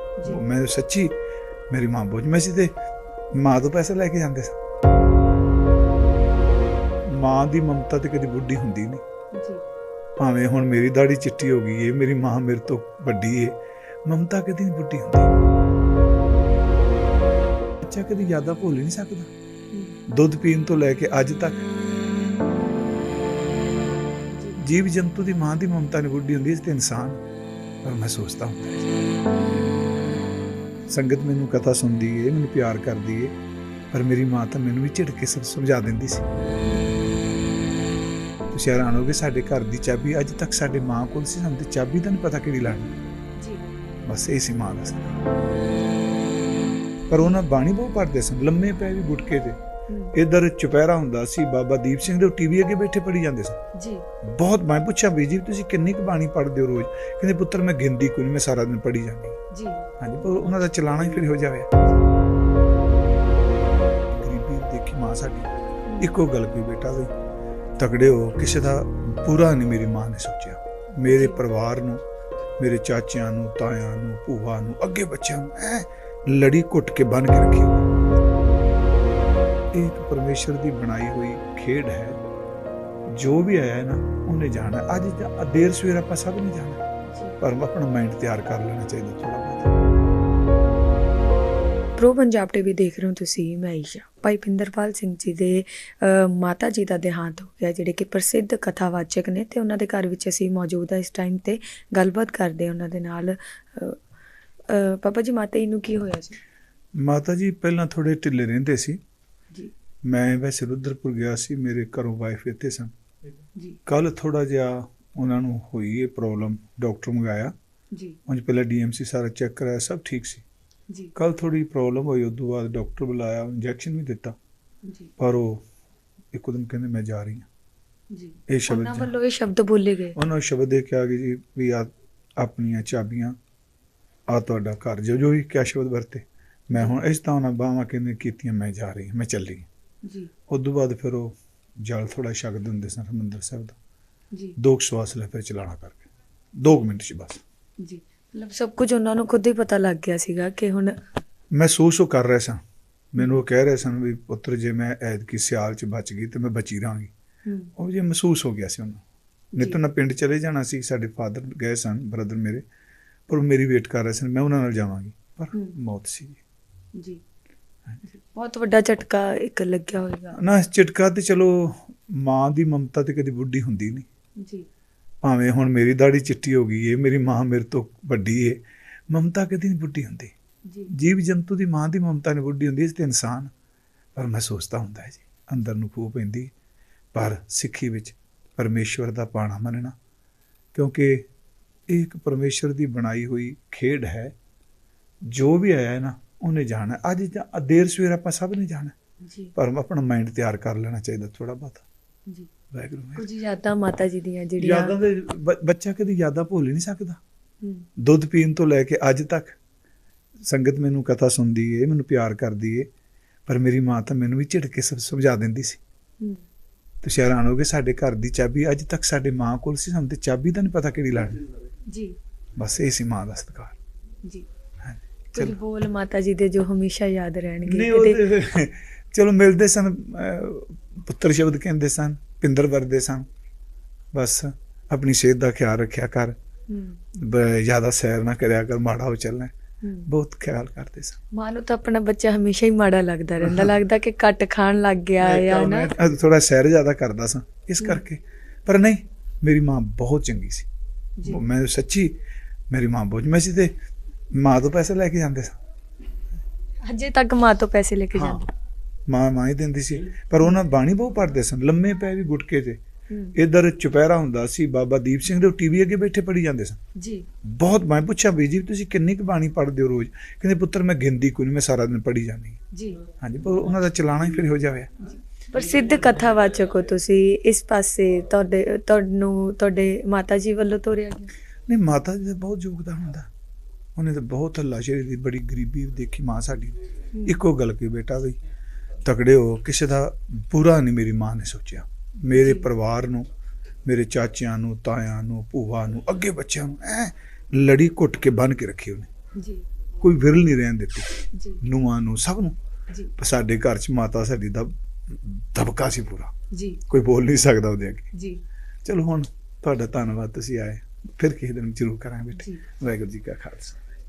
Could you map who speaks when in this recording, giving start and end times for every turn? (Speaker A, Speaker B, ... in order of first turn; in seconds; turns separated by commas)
Speaker A: 0.3-1.1, Speaker A: 1.7-2.7, Speaker A: 3.3-4.6, Speaker A: 7.1-9.0, Speaker B: 9.3-9.6, Speaker A: 10.2-15.3, Speaker A: 17.8-19.3, Speaker B: 19.7-20.0, Speaker A: 20.1-21.6, Speaker B: 24.3-24.6, Speaker A: 24.6-27.2, Speaker A: 27.8-28.9, Speaker A: 30.9-33.3, Speaker A: 33.9-36.2, Speaker B: 36.6-36.9, Speaker A: 38.5-43.0, Speaker B: 43.4-43.7, Speaker A: 44.1-45.2, Speaker A: 47.1-49.6, Speaker B: 49.9-50.1, Speaker A: 50.1-53.6, Speaker B: 53.8-54.0, Speaker A: 54.2-59.4, Speaker B: 59.5-59.8, Speaker A: 60.0-61.7, Speaker A: 64.1-65.5, Speaker A: 66.0-67.1, Speaker A: 67.8-72.0, Speaker B: 71.1-71.4, Speaker A: 72.6-77.8, Speaker A: 79.7-82.2, Speaker A: 83.1-86.8, Speaker B: 87.1-87.4, Speaker A: 87.4-89.7, Speaker B: 92.0-104.0, Speaker B: 104.7-106.4, Speaker A: 107.0-109.0, Speaker A: 110.1-112.9, Speaker A: 113.9-117.5, Speaker B: 117.9-118.2, Speaker A: 118.3-120.5, Speaker A: 121.2-124.4, Speaker B: 124.9-125.1, Speaker A: 125.2-125.6, Speaker A: 126.3-127.5, Speaker B: 128.1-130.2, Speaker A: 128.5-129.1, Speaker A: 130.2-133.4, Speaker A: 134.3-139.7, Speaker B: 140.0-140.3, Speaker A: 140.5-143.8, Speaker A: 144.6-147.4, Speaker B: 147.8-150.9, Speaker A: 151.5-152.6, Speaker A: 153.1-157.1, Speaker B: 157.5-157.7, Speaker A: 157.8-159.0, Speaker B: 159.6-159.8, Speaker A: 159.6-162.6, Speaker A: 163.3-166.4, Speaker B: 168.0-170.4, Speaker A: 170.3-174.1, Speaker B: 174.4-174.7, Speaker A: 175.2-180.3, Speaker A: 180.9-183.5, Speaker A: 184.2-186.5, Speaker A: 187.1-190.0, Speaker A: 190.7-191.3, Speaker A: 191.9-194.3, Speaker A: 195.3-198.9, Speaker B: 199.2-199.5, Speaker A: 199.6-201.8, Speaker A: 202.7-203.2, Speaker B: 203.2-205.0, Speaker A: 204.6-207.2, Speaker B: 207.6-207.9, Speaker A: 208.0-209.6, Speaker A: 210.5-212.9, Speaker A: 213.5-215.8, Speaker A: 217.0-221.4, Speaker B: 221.9-222.2, Speaker A: 222.6-223.8, Speaker A: 224.8-225.6, Speaker B: 225.3-228.2, Speaker A: 227.6-233.3, Speaker A: 234.1-236.4, Speaker B: 236.7-237.0, Speaker A: 237.1-239.5, Speaker B: 239.8-240.1, Speaker A: 240.1-241.2, Speaker B: 241.3-246.0, Speaker A: 243.4-243.7, Speaker A: 245.2-250.7, Speaker A: 251.2-252.2, Speaker A: 252.7-253.7, Speaker A: 254.3-255.6, Speaker B: 256.8-258.5, Speaker A: 258.1-258.4, Speaker A: 259.1-262.8, Speaker B: 263.1-263.4, Speaker A: 263.4-266.8, Speaker B: 267.0-267.3, Speaker A: 267.4-272.6, Speaker B: 272.7-273.0, Speaker A: 273.2-274.9, Speaker B: 275.0-281.3, Speaker A: 281.7-283.3, Speaker A: 284.0-288.4, Speaker B: 287.1-287.4, Speaker A: 289.1-293.3, Speaker B: 292.3-292.7, Speaker A: 293.9-299.1, Speaker B: 299.4-299.6, Speaker A: 300.0-302.6, Speaker B: 301.3-301.6, Speaker A: 303.2-306.3, Speaker B: 306.5-306.8, Speaker A: 306.9-308.1, Speaker B: 308.1-308.4, Speaker A: 308.9-313.8, Speaker B: 312.4-312.6